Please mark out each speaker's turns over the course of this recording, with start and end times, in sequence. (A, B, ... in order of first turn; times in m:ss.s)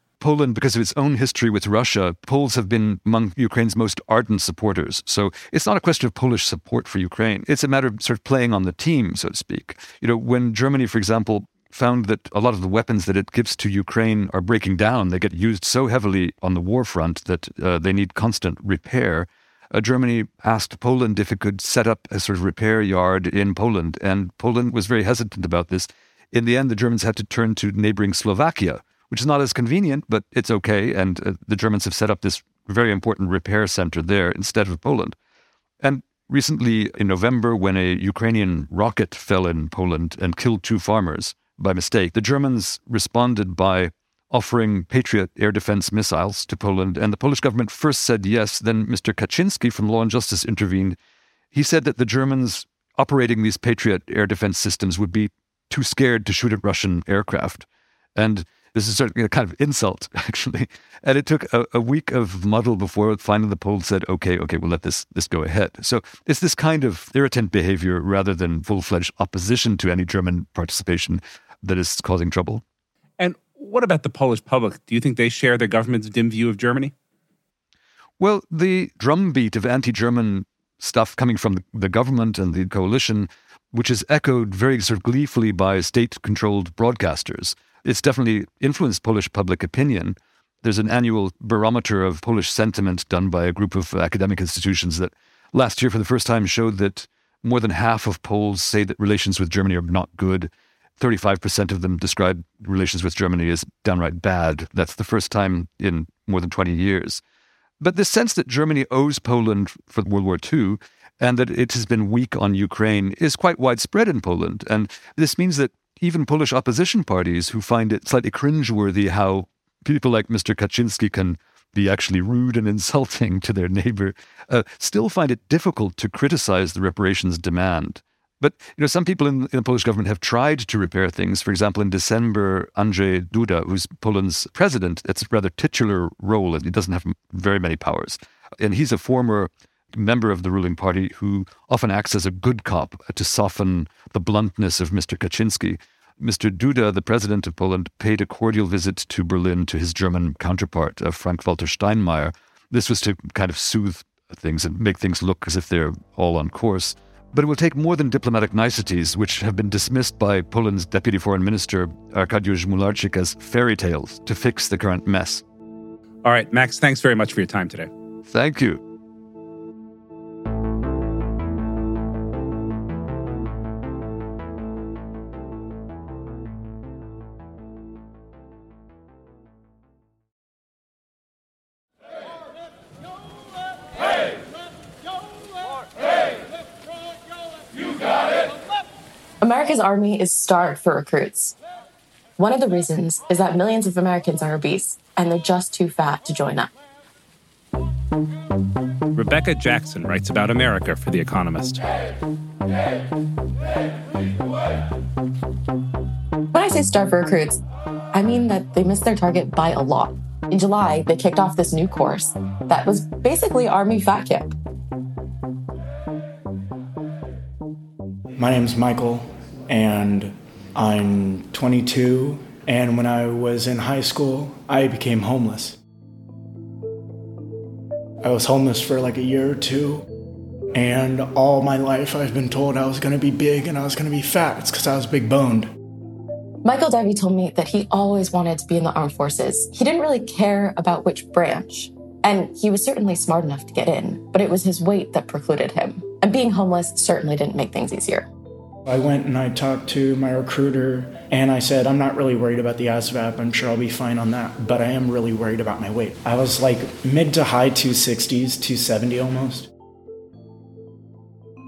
0:00.2-0:35.2 A
0:35.8-0:51.0 A
0:51.5-1:12.6 A
1:13.2-1:16.9 B
1:18.2-1:47.2 A
1:47.8-2:45.4 A
2:46.2-2:47.9 B
2:48.3-2:48.8 A
3:09.4-3:11.6 C
3:12.4-3:16.7 C
3:19.1-3:21.9 B
3:26.5-3:27.6 C
3:28.1-3:34.5 C
3:38.4-3:45.8 D
3:48.2-3:50.1 D
3:50.7-3:55.7 D
3:56.6-4:08.3 C
4:08.8-4:19.7 D